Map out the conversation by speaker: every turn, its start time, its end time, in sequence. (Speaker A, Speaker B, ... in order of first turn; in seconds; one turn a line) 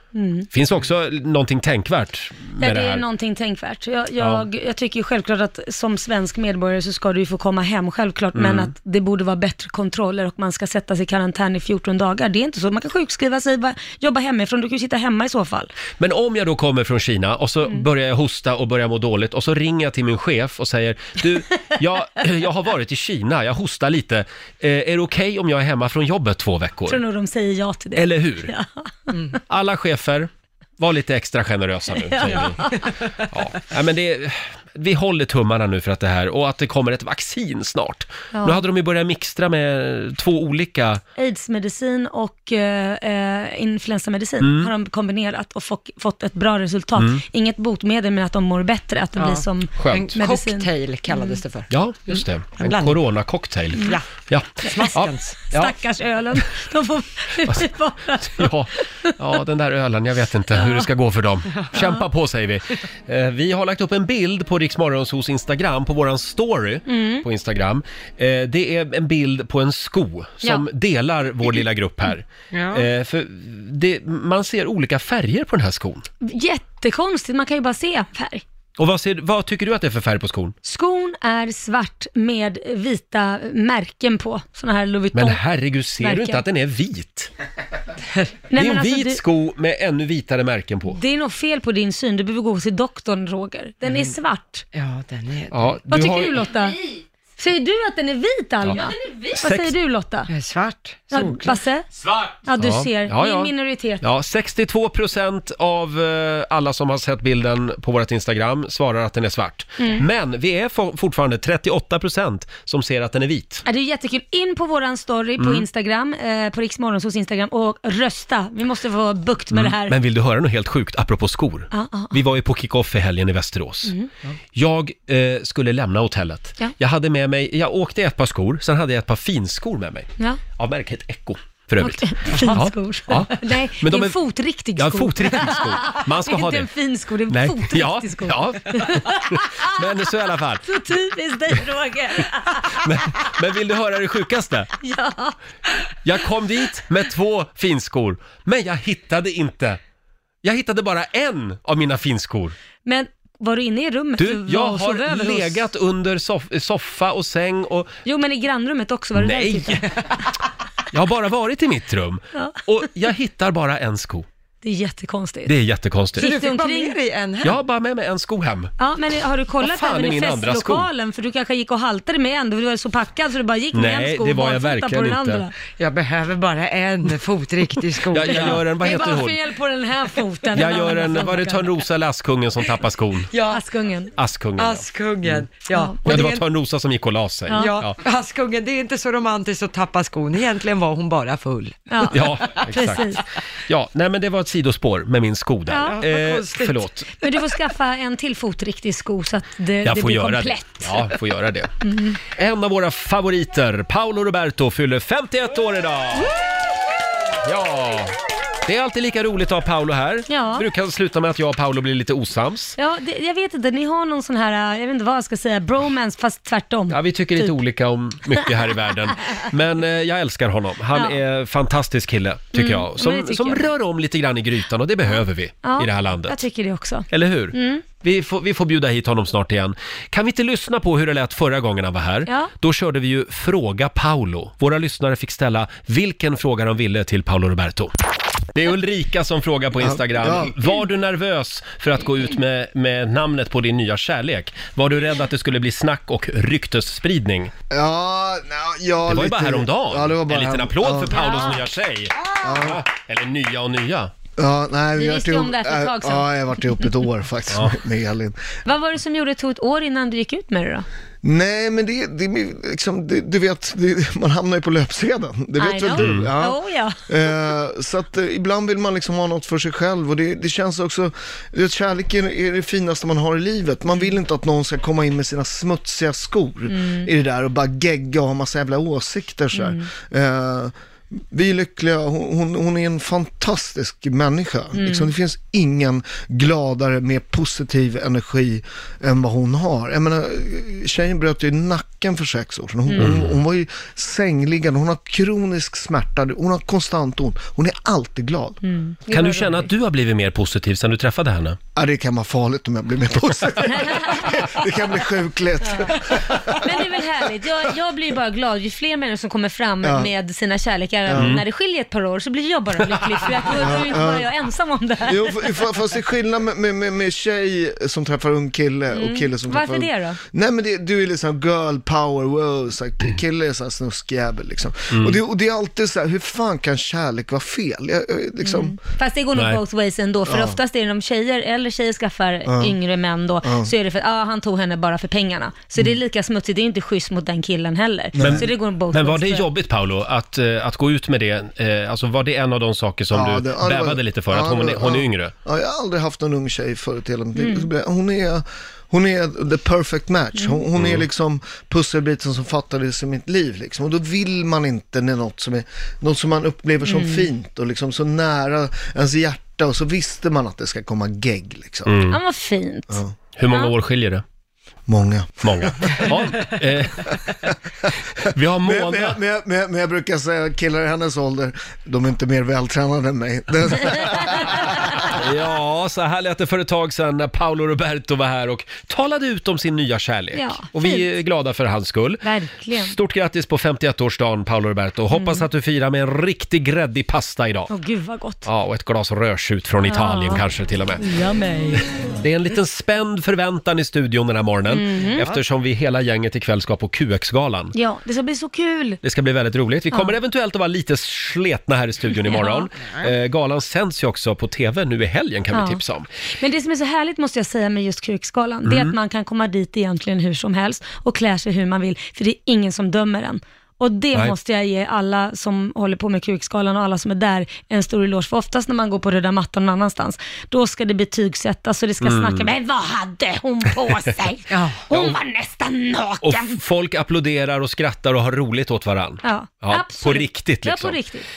Speaker A: 0.1-0.5
Speaker B: 0.5-3.0
Speaker A: 2.6-15.7
Speaker B: 4.2-4.5
Speaker B: 8.3-8.7
Speaker B: 16.0-27.0
Speaker A: 26.9-29.1
Speaker B: 27.9-28.5
Speaker B: 29.5-41.0
Speaker A: 32.0-32.8
Speaker A: 38.3-38.6
Speaker A: 41.2-51.4
Speaker B: 44.4-44.7
Speaker B: 47.0-47.2
Speaker C: 49.2-53.0
Speaker B: 49.8-50.1
Speaker B: 51.7-55.8
Speaker C: 53.8-54.1
Speaker C: 54.6-55.4
Speaker A: 55.5-58.5
Speaker B: 58.2-76.1
Speaker A: 66.9-67.2
Speaker C: 72.5-72.9
Speaker A: 76.2-78.4
Speaker B: 78.8-80.5
Speaker A: 80.6-85.4
Speaker B: 85.1-87.3
Speaker A: 86.0-86.4
Speaker A: 88.5-89.2
Speaker B: 88.5-91.0
Speaker A: 90.9-94.7
Speaker C: 93.8-94.1
Speaker C: 94.7-95.8
Speaker B: 95.5-96.4
Speaker A: 95.9-96.8
Speaker A: 97.4-100.3
Speaker B: 98.6-99.7
Speaker C: 100.3-101.6
Speaker A: 101.1-101.9
Speaker B: 102.0-113.6
Speaker A: 102.5-104.0
Speaker A: 109.8-110.0
Speaker A: 113.7-120.0
Speaker B: 115.4-115.7
Speaker B: 119.5-123.9
Speaker A: 121.7-122.2
Speaker B: 124.5-134.2
Speaker A: 131.8-139.6
Speaker B: 134.8-136.7
Speaker B: 137.3-140.7
Speaker A: 140.7-142.8
Speaker B: 142.7-144.7
Speaker A: 144.8-145.4
Speaker B: 146.0-149.8
Speaker B: 150.4-152.6
Speaker A: 152.8-155.7
Speaker B: 154.2-157.9
Speaker A: 158.1-159.9
Speaker B: 159.2-159.9
Speaker B: 160.9-164.3
Speaker A: 164.6-165.5
Speaker B: 165.5-166.3
Speaker A: 166.2-167.0
Speaker C: 166.2-167.6
Speaker B: 167.4-168.7
Speaker A: 168.8-175.5
Speaker B: 169.6-170.9
Speaker B: 173.7-175.4
Speaker C: 175.8-178.7
Speaker B: 178.1-179.4
Speaker A: 178.3-181.8
Speaker B: 180.5-183.3
Speaker C: 183.3-183.6
Speaker A: 183.5-184.1
Speaker B: 184.2-185.5
Speaker C: 184.6-186.5
Speaker B: 186.1-188.0
Speaker A: 187.5-187.8
Speaker C: 187.5-192.1
Speaker A: 191.9-193.2
Speaker B: 192.1-197.1
Speaker A: 195.7-196.0
Speaker C: 195.8-196.8
Speaker A: 197.2-201.1
Speaker B: 199.8-201.7
Speaker A: 201.8-202.2
Speaker B: 202.3-206.3
Speaker B: 207.4-212.8
Speaker A: 210.3-210.7
Speaker A: 212.8-217.5
Speaker B: 216.9-226.4
Speaker A: 222.5-223.7
Speaker A: 225.6-227.8
Speaker B: 227.1-237.9
Speaker A: 232.3-232.5
Speaker B: 238.5-247.5
Speaker D: 239.8-240.6
Speaker D: 247.7-251.3
Speaker B: 249.1-254.1
Speaker A: 251.2-251.6
Speaker D: 252.4-252.8
Speaker D: 254.4-258.4
Speaker A: 255.0-257.0
Speaker B: 257.5-257.8
Speaker A: 258.7-260.9
Speaker D: 261.2-280.7
Speaker A: 265.6-267.3
Speaker B: 265.9-266.3
Speaker A: 276.7-277.1
Speaker A: 279.5-279.9
Speaker D: 281.3-298.6
Speaker A: 284.8-285.1
Speaker A: 292.9-293.1
Speaker B: 293.0-293.4
Speaker A: 298.6-299.7
Speaker B: 299.1-301.6
Speaker D: 301.8-307.3
Speaker A: 303.7-304.4
Speaker A: 305.6-315.6
Speaker D: 309.8-310.1
Speaker D: 311.1-311.4
Speaker B: 311.2-311.4
Speaker D: 313.4-314.3
Speaker D: 315.0-328.8
Speaker A: 318.9-320.2
Speaker B: 324.9-325.2
Speaker A: 328.4-339.5
Speaker B: 329.4-329.6
Speaker D: 330.3-330.6
Speaker D: 332.4-332.8
Speaker D: 333.4-333.7
Speaker D: 338.1-338.5
Speaker B: 338.2-345.3
Speaker D: 343.1-361.9
Speaker A: 347.4-347.7
Speaker A: 350.4-350.6
Speaker B: 350.8-351.1
Speaker A: 356.9-357.3
Speaker B: 361.9-362.2
Speaker A: 362.1-363.7
Speaker D: 362.9-363.2
Speaker B: 363.4-364.2
Speaker D: 364.9-366.5
Speaker B: 365.4-367.0
Speaker B: 368.3-369.2
Speaker D: 368.6-375.1
Speaker B: 375.2-387.7
Speaker A: 380.4-381.1
Speaker A: 382.2-382.9
Speaker A: 385.1-385.5
Speaker A: 387.7-388.5
Speaker B: 388.4-391.0
Speaker A: 389.9-390.4
Speaker A: 391.0-391.9
Speaker B: 392.2-397.7
Speaker A: 394.7-395.2
Speaker A: 397.7-399.0
Speaker B: 399.0-406.1
Speaker A: 402.2-402.7
Speaker A: 405.5-405.8
Speaker A: 406.4-426.6
Speaker B: 408.6-408.9
Speaker B: 422.0-422.5
Speaker C: 424.5-424.8
Speaker B: 424.9-425.2
Speaker B: 426.2-431.0
Speaker A: 429.2-431.3